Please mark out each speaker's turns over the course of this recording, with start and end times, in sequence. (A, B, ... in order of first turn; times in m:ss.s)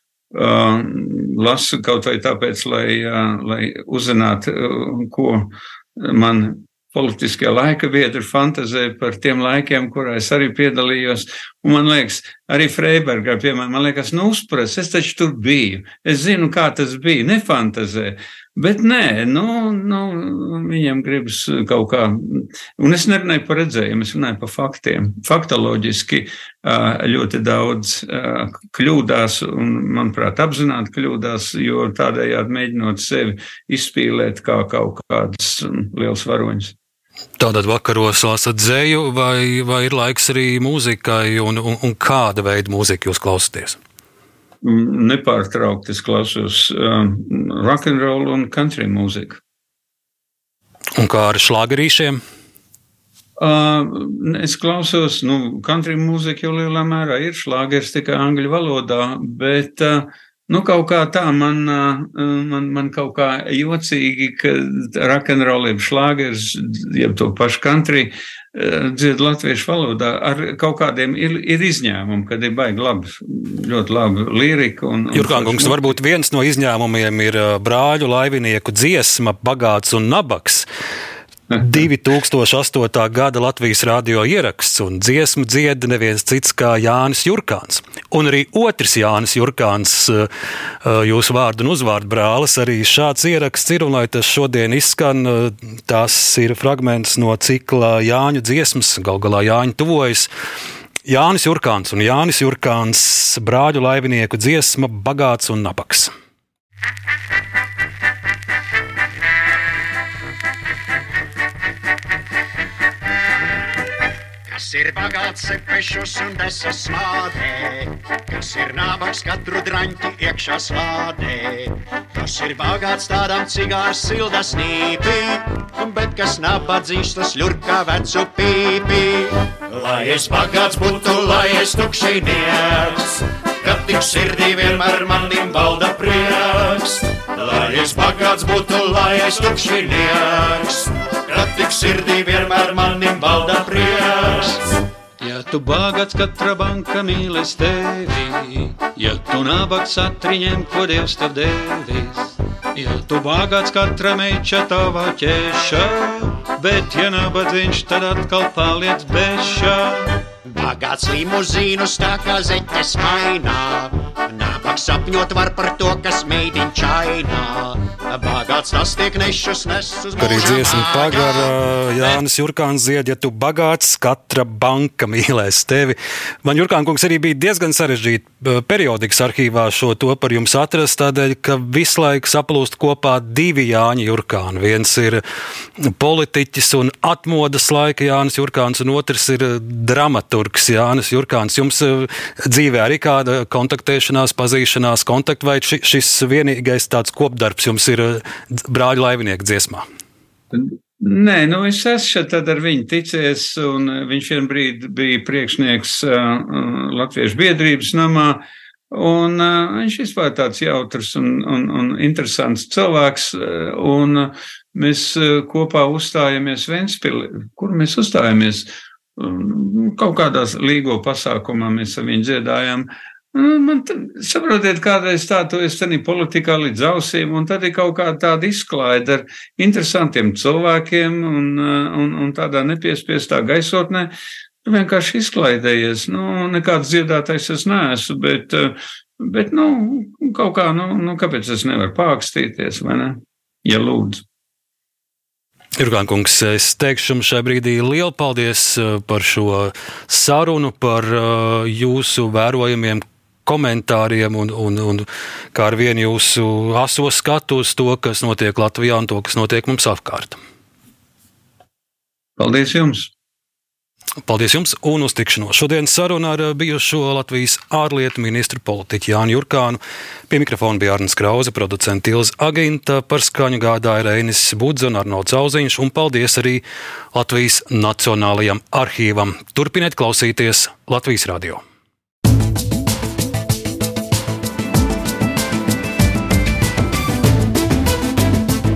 0:00.3-0:36.7 A
0:37.4-0:43.8 B
0:44.6-0:49.4 A
0:51.0-0:52.2 B
0:53.4-1:15.9 A
1:15.1-1:20.7 B
1:21.6-1:30.3 B
1:30.8-1:40.3 B
1:41.0-1:46.1 B
1:54.5-2:24.7 C
2:25.2-2:28.1 A
2:28.9-2:32.0 A
2:32.8-2:35.8 A
2:36.6-2:39.7 A
2:40.5-2:52.2 C
2:50.2-3:05.2 B
3:05.8-3:19.8 B
3:20.5-3:54.1 A
3:54.6-4:04.2 A
4:05.8-4:20.4 B
4:22.4-4:23.1 A
4:24.2-4:41.6 B